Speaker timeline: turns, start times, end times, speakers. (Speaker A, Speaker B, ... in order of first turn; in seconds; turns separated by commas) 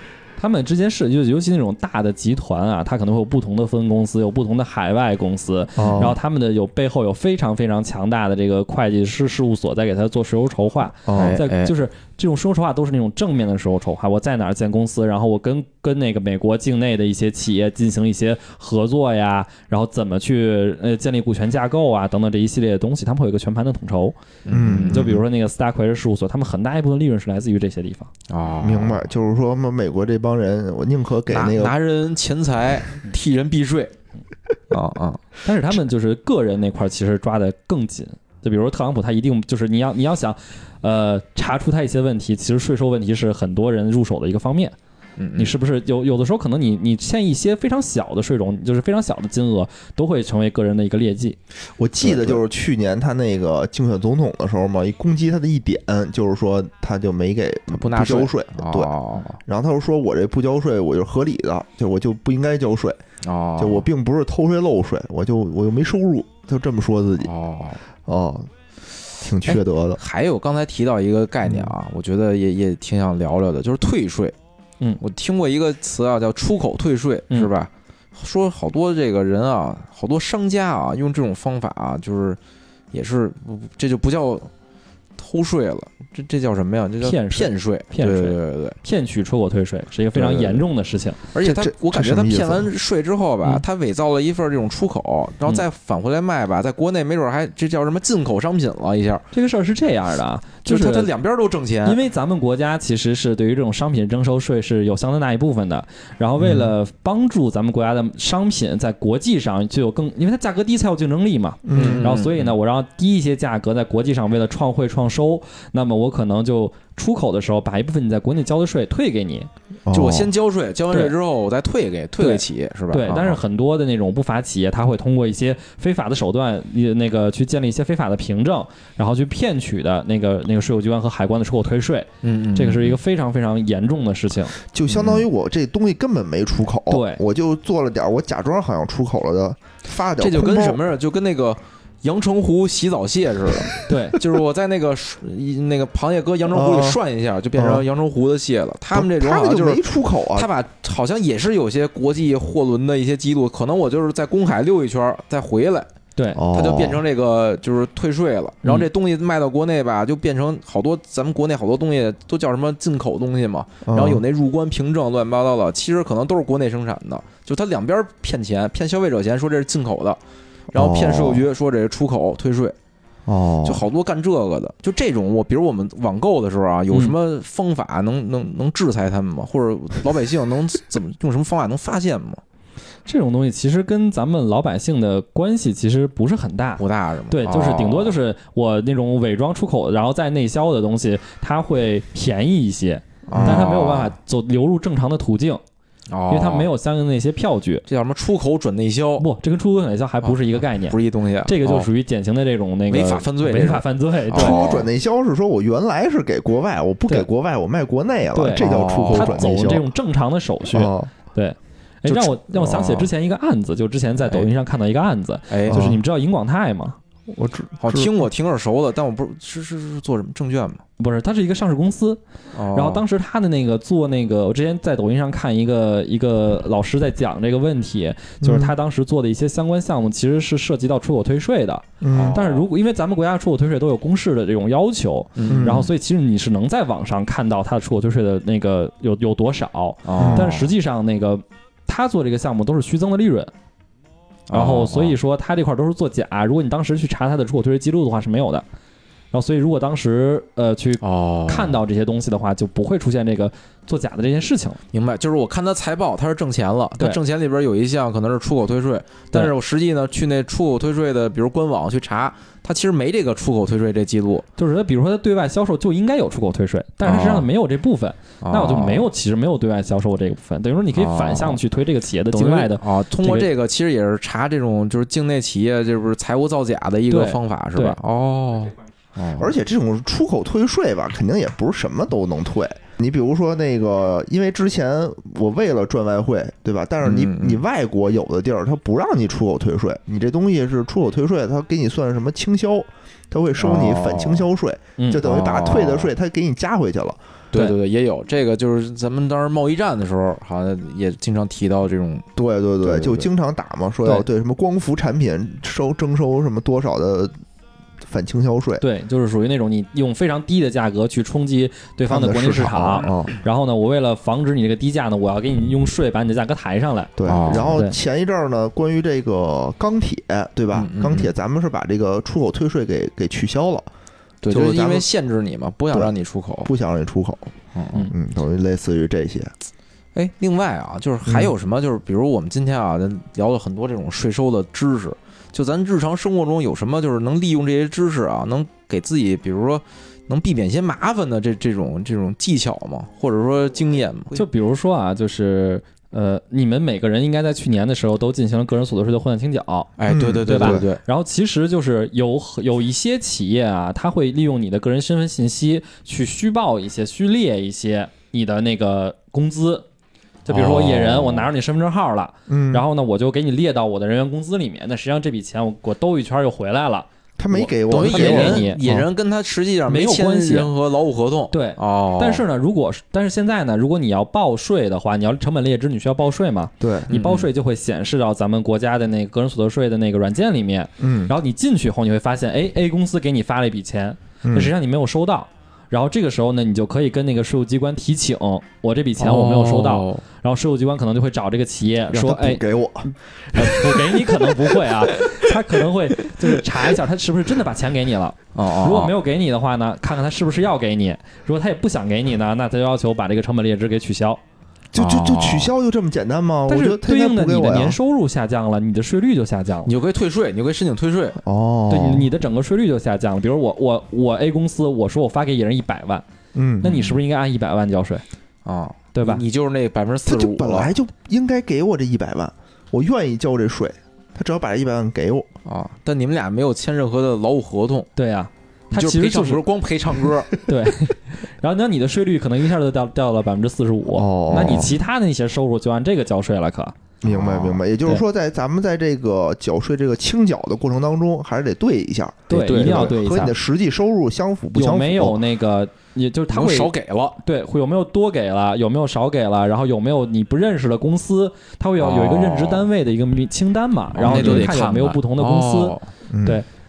Speaker A: 0.4-24.1, Speaker B: 5.8-6.2, Speaker C: 5.8-6.1, Speaker B: 11.1-11.4, Speaker C: 11.1-11.7, Speaker C: 24.4-25.2, Speaker B: 24.5-25.2, Speaker A: 24.8-28.1, Speaker C: 28.3-29.1, Speaker B: 28.6-31.7, Speaker C: 31.3-33.9, Speaker C: 34.7-35.2, Speaker A: 35.4-44.7, Speaker C: 45.2-45.5, Speaker A: 45.4-51.4, Speaker B: 51.8-58.9, Speaker C: 52.0-52.4, Speaker C: 57.7-59.4, Speaker B: 59.5-63.0, Speaker C: 63.2-63.9, Speaker B: 63.6-67.3, Speaker C: 67.2-67.8, Speaker B: 68.0-68.5, Speaker B: 69.2-70.0, Speaker C: 69.5-74.3, Speaker B: 71.5-71.7, Speaker C: 75.0-82.4, Speaker C: 82.9-84.5, Speaker C: 85.2-88.8, Speaker A: 87.0-91.2, Speaker C: 90.1-90.6, Speaker C: 91.3-99.3, Speaker B: 91.4-92.7, Speaker A: 99.3-101.1, Speaker C: 100.7-102.0, Speaker A: 101.8-119.5, Speaker B: 106.4-106.7, Speaker B: 111.6-112.1, Speaker C: 111.7-112.5, Speaker B: 119.8-120.3, Speaker C: 119.9-123.4, Speaker A: 122.2-134.6, Speaker C: 132.2-133.0, Speaker B: 134.7-140.8, Speaker C: 134.9-135.2, Speaker A: 136.9-137.2, Speaker C: 140.2-155.9, Speaker A: 143.8-144.2, Speaker B: 146.5-147.0, Speaker B: 147.5-147.8, Speaker B: 148.9-150.5, Speaker A: 156.2-156.4, Speaker B: 156.3-157.0, Speaker C: 156.5-170.2, Speaker B: 163.8-164.2, Speaker C: 170.7-172.8, Speaker B: 170.7-171.4, Speaker B: 173.2-173.8, Speaker C: 173.6-182.4, Speaker A: 183.1-195.6, Speaker C: 186.8-188.2, Speaker C: 193.3-194.1, Speaker B: 193.3-193.7, Speaker C: 196.1-196.7, Speaker A: 196.3-197.8, Speaker C: 197.9-199.3, Speaker A: 199.2-204.7, Speaker C: 200.2-201.9, Speaker C: 202.9-204.9, Speaker B: 204.3-209.8, Speaker A: 208.3-217.0, Speaker C: 208.6-209.4, Speaker B: 210.7-211.1, Speaker C: 212.1-213.1, Speaker C: 214.2-214.5, Speaker C: 215.5-215.9, Speaker B: 215.7-216.0, Speaker B: 217.3-218.1, Speaker C: 217.8-220.8, Speaker A: 221.0-222.2, Speaker C: 222.5-223.0, Speaker A: 222.7-243.5, Speaker B: 228.4-228.7, Speaker B: 232.0-232.4, Speaker C: 232.1-232.7, Speaker C: 235.3-235.8, Speaker B: 235.5-235.9, Speaker C: 240.0-240.7, Speaker B: 240.2-240.5, Speaker C: 244.5-245.2, Speaker A: 244.5-248.6, Speaker A: 249.3-254.8, Speaker C: 251.0-251.8, Speaker C: 254.9-264.4, Speaker A: 264.6-273.5, Speaker C: 267.0-267.5, Speaker C: 268.4-269.1, Speaker C: 270.9-271.6, Speaker C: 272.3-279.5, Speaker A: 277.1-278.0, Speaker B: 279.4-297.2, Speaker C: 287.0-287.6, Speaker C: 293.6-294.5, Speaker A: 295.0-295.2, Speaker C: 295.2-296.1, Speaker C: 297.5-302.3, Speaker B: 302.4-307.3, Speaker C: 302.8-303.3, Speaker B: 308.0-308.8, Speaker A: 308.8-317.9, Speaker B: 312.1-313.3, Speaker B: 317.2-323.9, Speaker C: 317.3-317.7, Speaker C: 320.7-321.3, Speaker C: 324.4-326.7, Speaker B: 324.5-325.1, Speaker B: 325.9-327.5, Speaker C: 327.7-328.1, Speaker B: 328.1-329.5, Speaker C: 330.1-344.4, Speaker B: 331.2-331.5, Speaker A: 344.3-349.9, Speaker C: 350.0-351.0, Speaker B: 350.1-350.9, Speaker A: 350.4-359.9, Speaker A: 360.4-368.8, Speaker C: 360.5-361.5, Speaker B: 362.5-362.8, Speaker B: 367.4-369.1, Speaker C: 367.9-372.4, Speaker A: 369.9-370.7, Speaker A: 371.5-404.4, Speaker B: 376.8-377.1, Speaker C: 377.1-377.5, Speaker B: 381.0-381.3, Speaker B: 384.4-384.7, Speaker C: 389.2-390.2, Speaker B: 392.1-395.5, Speaker C: 398.5-399.1, Speaker B: 404.9-408.0, Speaker C: 404.9-405.7, Speaker A: 406.7-409.9, Speaker C: 409.9-411.4, Speaker B: 411.4-412.3, Speaker A: 411.9-416.2, Speaker B: 416.5-417.0, Speaker A: 416.8-418.2, Speaker C: 416.9-417.2, Speaker C: 418.6-420.9, Speaker A: 419.1-419.4, Speaker B: 420.2-425.5, Speaker C: 425.6-428.1, Speaker A: 428.1-429.6, Speaker C: 428.9-430.5, Speaker A: 430.6-436.9, Speaker B: 434.1-434.9, Speaker B: 437.2-445.4, Speaker C: 437.2-437.8, Speaker A: 442.5-443.5, Speaker C: 442.6-443.2, Speaker A: 444.7-446.9, Speaker C: 446.5-447.4, Speaker A: 447.4-456.6, Speaker C: 452.0-452.9, Speaker C: 454.2-456.1, Speaker B: 454.2-454.7, Speaker B: 456.3-456.6